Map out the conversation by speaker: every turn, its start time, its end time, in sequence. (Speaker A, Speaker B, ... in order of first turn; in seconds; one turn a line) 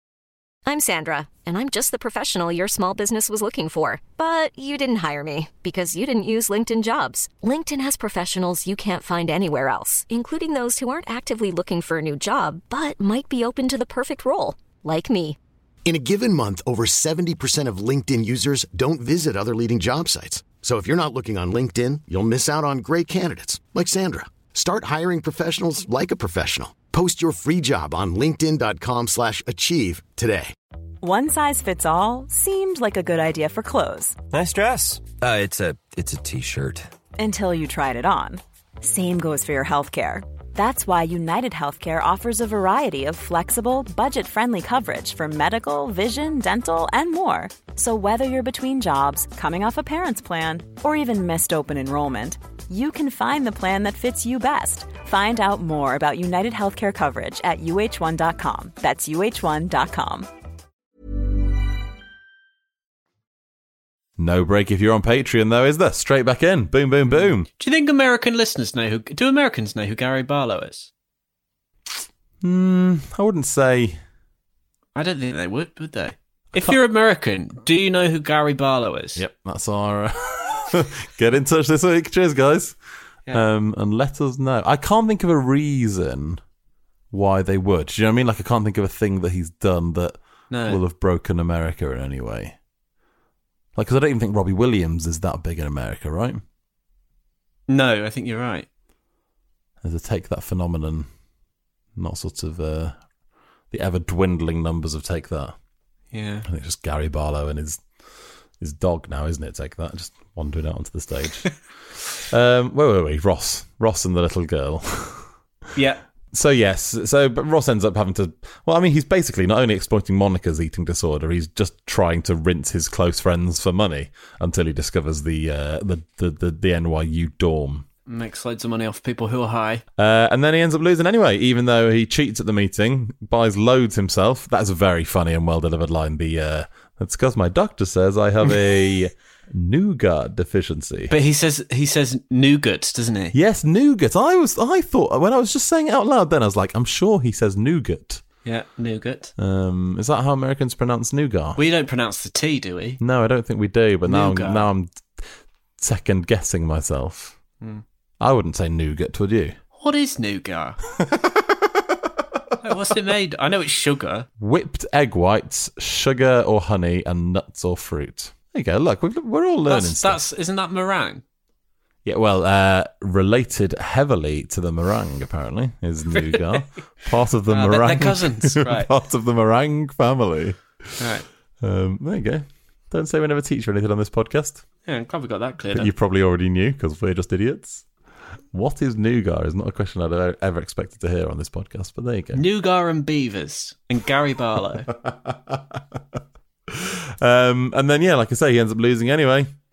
Speaker A: 0.7-15.4
Speaker B: 15.8-30.5
Speaker C: 31.0-34.2
Speaker D: 34.3-36.9
Speaker C: 37.2-60.3
Speaker E: 64.2-67.5
Speaker F: 67.1-70.9
Speaker E: 72.4-74.0
Speaker F: 75.0-79.2
Speaker E: 79.2-82.8
Speaker E: 83.3-86.4
Speaker E: 87.1-92.6
Speaker F: 90.5-90.8
Speaker E: 93.8-96.4
Speaker F: 97.7-98.7
Speaker E: 99.8-101.1
Speaker E: 102.0-103.0
Speaker E: 103.7-105.5
Speaker F: 106.1-106.5
Speaker E: 106.5-107.8
Speaker E: 108.6-111.5
Speaker E: 112.1-115.3
Speaker F: 115.8-116.0
Speaker E: 116.3-127.9
Speaker F: 128.1-129.8
Speaker E: 130.0-141.2
Speaker F: 141.1-143.3
Speaker E: 143.3-148.2
Speaker F: 148.4-149.3
Speaker E: 149.4-151.6
Speaker F: 151.6-153.0
Speaker E: 153.0-155.3
Speaker F: 154.1-154.7
Speaker E: 155.8-157.4
Speaker E: 158.2-159.6
Speaker F: 159.8-160.8
Speaker E: 161.1-161.4
Speaker F: 162.6-164.3
Speaker E: 164.4-170.2
Speaker F: 169.7-171.2
Speaker E: 172.1-184.6
Speaker F: 176.2-176.6
Speaker F: 177.5-178.9
Speaker F: 181.0-181.3
Speaker F: 184.9-185.9
Speaker E: 185.7-187.8
Speaker E: 188.5-192.4
Speaker F: 192.3-194.9
Speaker E: 195.1-195.8
Speaker E: 196.7-199.5